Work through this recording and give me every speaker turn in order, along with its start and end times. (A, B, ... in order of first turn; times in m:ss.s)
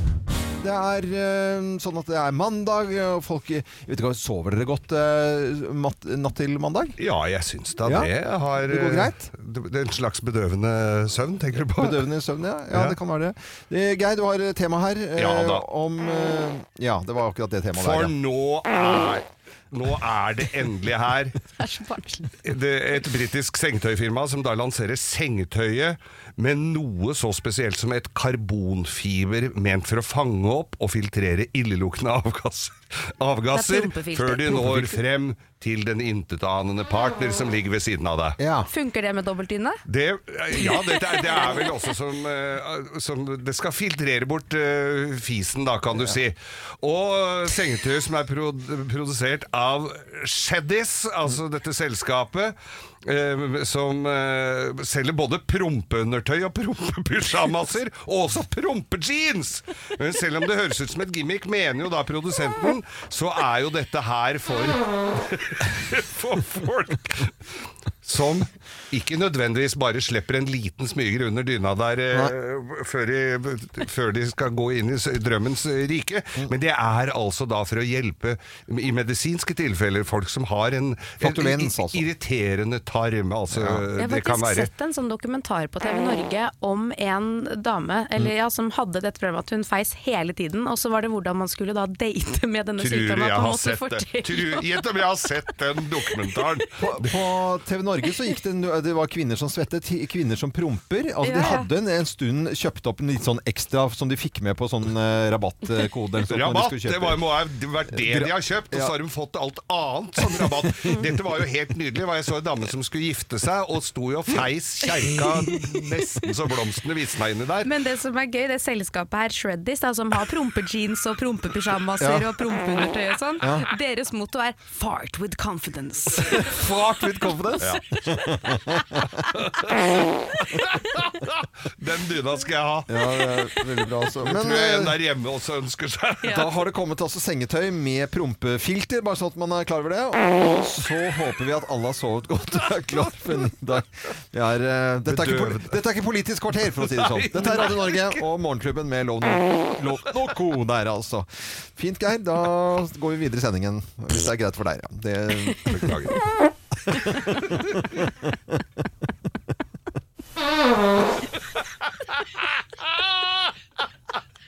0:00.6-0:07.0 A
0:07.0-0:12.1 B
0:07.8-0:08.1 A
0:08.7-0:09.2 A
0:11.8-0:18.1 A
0:12.7-0:13.0 B
0:15.2-0:15.6 B
0:17.8-0:21.4 B
0:21.6-0:22.3 C
0:22.4-0:38.4 B
0:33.5-0:35.0 C
0:38.4-0:38.7 A
0:38.7-0:39.8 C
0:39.9-1:07.3 B
0:40.6-0:41.0 C
1:08.0-1:24.7 B
1:21.2-1:22.0 A
1:23.5-1:23.8 A
1:24.0-1:34.8 C
1:32.8-1:37.1 B
1:36.8-1:47.2 A
1:41.2-1:41.7 C
1:46.3-1:57.7 B
1:47.9-1:48.9 A
1:50.2-1:50.5 A
1:55.5-1:55.8 C
1:57.6-2:06.5 C
2:02.0-2:02.3 A
2:03.4-2:03.7 A
2:06.3-2:09.2 A
2:09.3-2:13.5 B
2:12.9-2:15.0 A
2:14.2-2:16.5 B
2:16.2-2:35.9 A
2:25.1-2:25.8 B
2:26.8-2:28.2 B
2:35.7-2:36.2 B
2:36.9-2:37.5 A